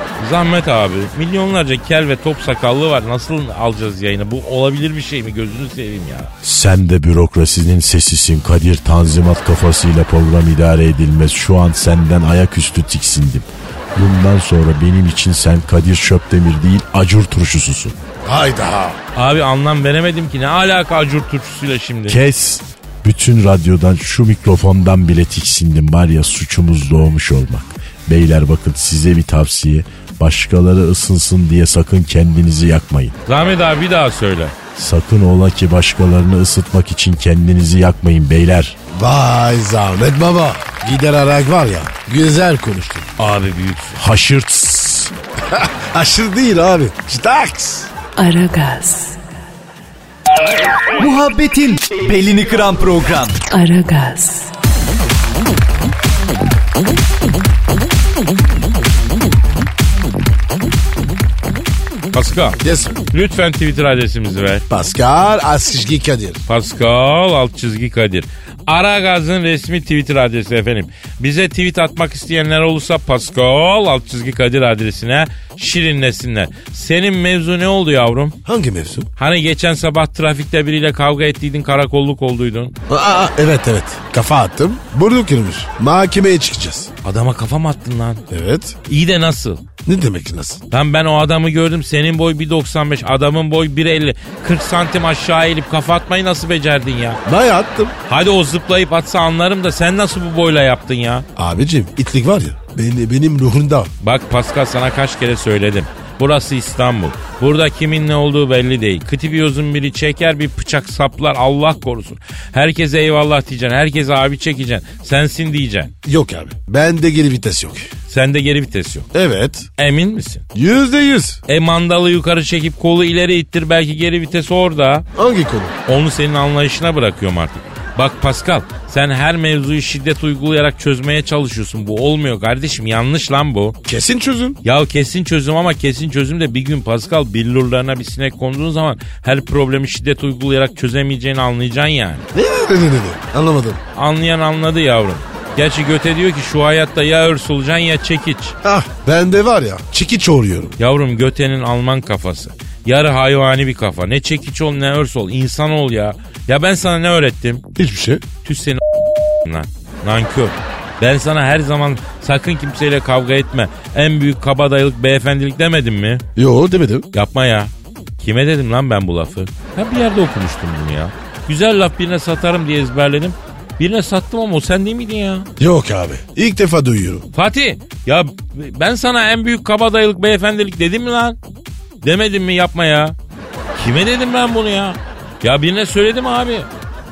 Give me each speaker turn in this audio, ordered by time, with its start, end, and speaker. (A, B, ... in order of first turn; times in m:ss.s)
0:00.2-0:06.3 A
0:06.4-0:18.0 B
0:18.2-0:19.0 C
0:19.2-0:22.2 A
0:22.1-0:33.2 B
0:33.3-0:34.6 A
0:34.8-0:38.8 B
0:38.9-0:43.1 C
0:43.2-0:44.0 A
0:44.0-0:45.1 B
0:45.5-0:47.9 C
0:48.2-0:49.2 D
0:50.9-0:53.4 E
0:53.5-0:54.5 D
1:02.1-1:02.6 A
1:02.6-1:03.0 C
1:03.1-1:04.7 A
1:04.7-1:06.4 C
1:06.5-1:18.4 A
1:18.5-1:19.1 C
1:19.2-1:22.7 A
1:22.9-1:26.9 C
1:27.0-1:28.2 A
1:28.3-1:28.8 C
1:28.9-1:29.6 A
1:29.8-1:30.6 C
1:30.7-1:37.2 A
1:37.3-1:38.0 C
1:38.1-1:41.3 A
1:41.4-1:43.9 C
1:44.0-1:55.9 A
1:56.0-1:57.9 C
1:58.1-1:59.1 A
1:59.1-1:59.7 C
1:59.8-2:00.4 A
2:00.5-2:01.4 C
2:01.5-2:05.1 A
2:05.2-2:05.8 C
2:05.9-2:13.8 A
2:13.9-2:14.6 C
2:14.6-2:22.3 A
2:22.3-2:23.8 C
2:24.0-2:28.6 A
2:28.6-2:30.8 C
2:30.8-2:37.6 A
2:37.8-2:38.2 C
2:38.4-2:38.8 A
2:39.4-2:46.2 A
2:46.4-2:47.1 C
2:47.1-2:55.5 A
2:55.6-2:57.3 C
2:57.3-3:01.4 A
3:02.0-3:03.2 A
3:03.7-3:06.7 A